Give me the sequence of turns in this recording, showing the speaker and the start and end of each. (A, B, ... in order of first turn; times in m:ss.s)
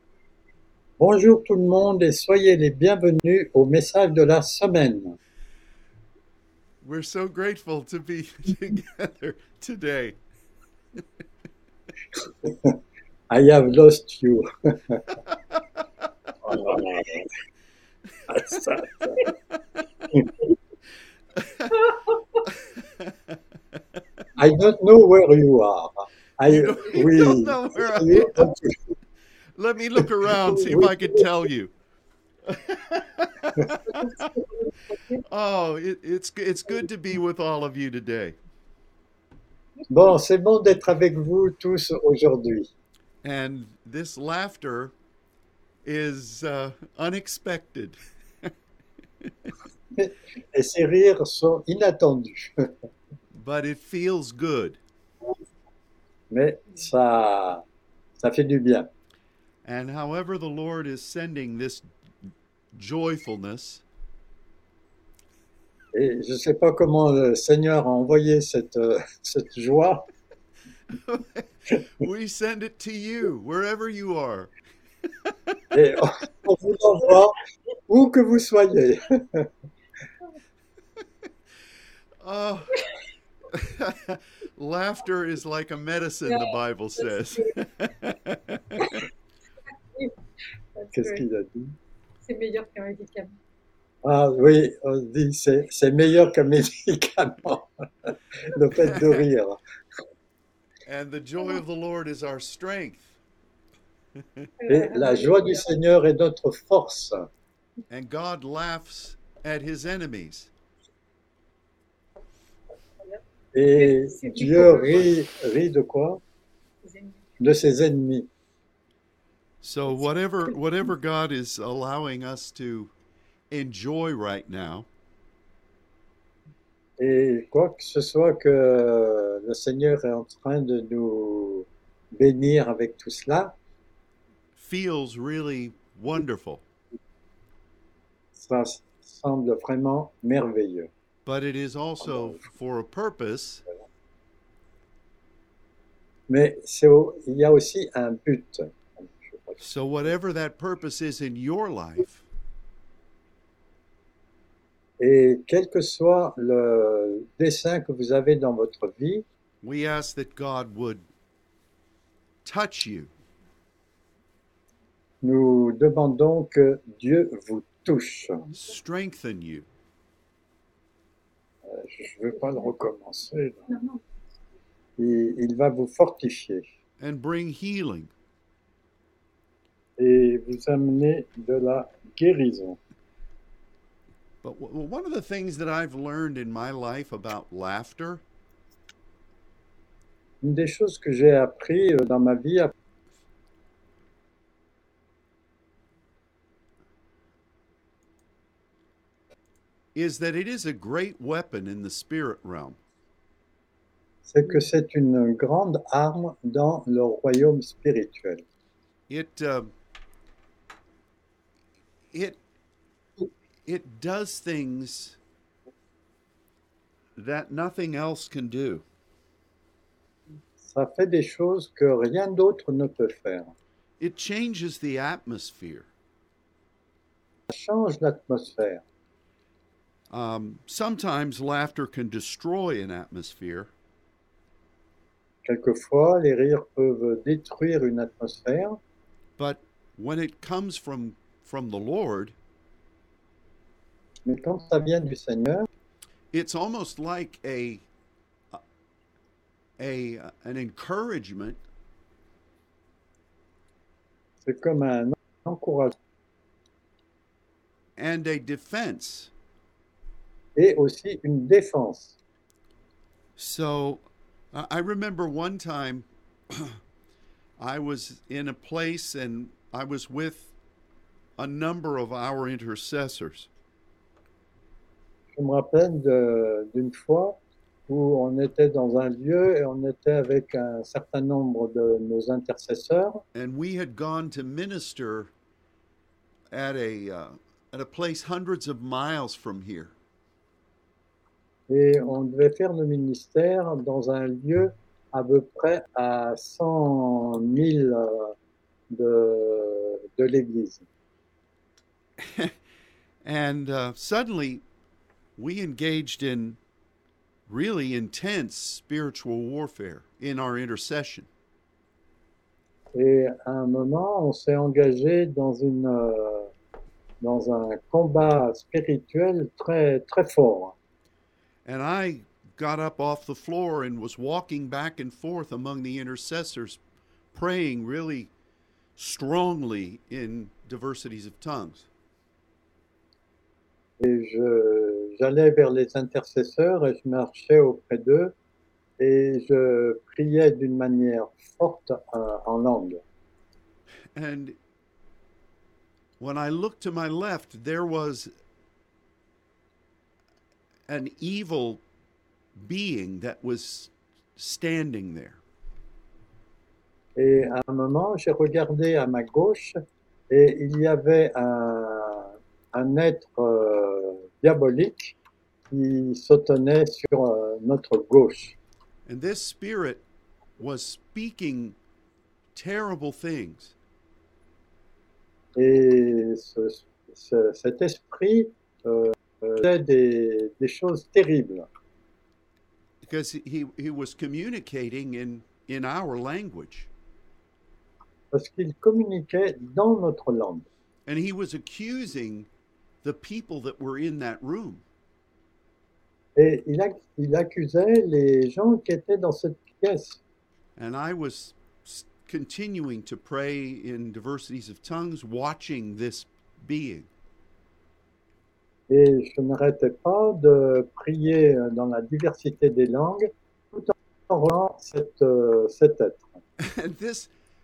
0:01.0-0:05.2 A
0:06.8-0:10.2 B
0:12.2-0:12.8 A
0:13.3-0:15.0 A
0:16.4-0:17.3 A
0:18.3-0:19.3 A
0:21.4-0:21.9 B
0:22.4-0:23.1 B
0:24.4-0:28.8 A
0:26.4-0:28.5 B
0:29.6-0:31.7 B
0:30.3-0:31.3 A
0:32.5-0:34.3 B
0:34.1-0:35.2 C
0:35.2-0:38.4 B
0:39.9-0:42.7 A
0:43.2-0:44.9 B
0:45.8-0:48.5 B
0:50.0-0:52.7 A
0:53.4-0:54.8 B
0:56.3-0:57.6 A
0:58.2-0:58.9 A
0:59.6-1:01.9 B
1:02.7-1:03.8 B
1:05.9-1:10.1 A
1:10.9-1:14.5 B
1:15.2-1:15.6 B
1:15.7-1:17.3 A
1:17.9-1:19.5 A
1:22.2-1:22.9 B
1:23.5-1:29.0 B
1:26.3-1:27.6 C
1:30.8-1:31.2 C
1:30.9-1:31.8 A
1:32.2-1:33.4 C
1:34.0-1:39.6 A
1:38.8-1:39.2 B
1:40.9-1:43.2 B
1:44.6-1:45.7 C
1:44.7-1:47.3 A
1:47.9-1:50.5 B
1:53.5-1:56.2 A
1:53.7-1:55.1 C
1:56.8-1:57.2 C
1:57.4-1:58.3 A
1:59.6-2:02.9 B
2:03.5-2:04.9 B
2:07.0-2:13.6 A
2:14.6-2:16.6 B
2:18.4-2:20.9 A
2:21.3-2:23.6 B
2:26.3-2:29.6 A
2:29.6-2:32.3 B
2:35.0-2:39.2 A
2:39.6-2:41.1 B
2:42.4-2:43.1 B
2:45.2-2:48.5 A
2:48.5-2:49.7 B
2:51.6-2:53.7 A
2:53.7-2:54.0 C
2:55.0-2:56.6 A
2:57.0-2:58.1 B
3:00.0-3:02.8 A
3:04.4-3:08.2 B
3:10.4-3:12.7 A
3:20.0-3:22.8 B
3:24.3-3:28.4 A
3:29.1-3:29.7 B
3:32.1-3:32.4 B
3:33.7-3:35.2 B
3:37.2-3:38.8 B
3:40.6-3:43.5 A
3:44.0-3:45.9 B
3:47.5-3:48.8 A
3:50.1-3:53.7 B
3:55.4-3:58.8 A
3:59.4-4:02.4 B
4:04.3-4:05.7 A
4:06.3-4:07.8 B
4:09.8-4:11.6 B
4:14.4-4:16.0 A
4:18.0-4:19.3 B
4:20.6-4:22.2 A
4:23.4-4:24.0 B
4:24.5-4:26.8 B
4:27.6-4:30.5 B
4:31.4-4:33.5 B
4:35.4-4:43.2 A
4:43.3-4:45.3 B
4:46.5-4:49.9 B
4:51.7-4:58.4 A
4:58.9-5:00.8 A
5:02.2-5:02.5 B
5:03.2-5:04.6 B
5:05.4-5:06.6 B
5:07.5-5:11.3 B
5:13.0-5:16.5 A
5:17.2-5:20.8 A
5:21.6-5:26.8 B
5:27.3-5:28.3 B
5:29.0-5:31.9 B
5:34.0-5:38.3 A
5:39.0-5:43.0 A
5:44.1-5:44.6 B
5:46.2-5:48.3 B
5:50.9-5:51.8 B
5:52.6-5:55.4 B
5:57.2-5:59.8 A
6:00.3-6:05.2 A
6:05.7-6:08.6 A
6:09.1-6:10.0 B
6:10.6-6:11.8 B
6:12.6-6:13.7 B
6:15.6-6:21.7 A
6:23.0-6:26.9 B
6:28.3-6:30.7 A
6:31.1-6:32.5 B
6:33.0-6:34.8 B
6:36.4-6:40.2 A
6:40.8-6:47.1 B
6:48.9-6:56.4 A
6:56.6-6:57.3 B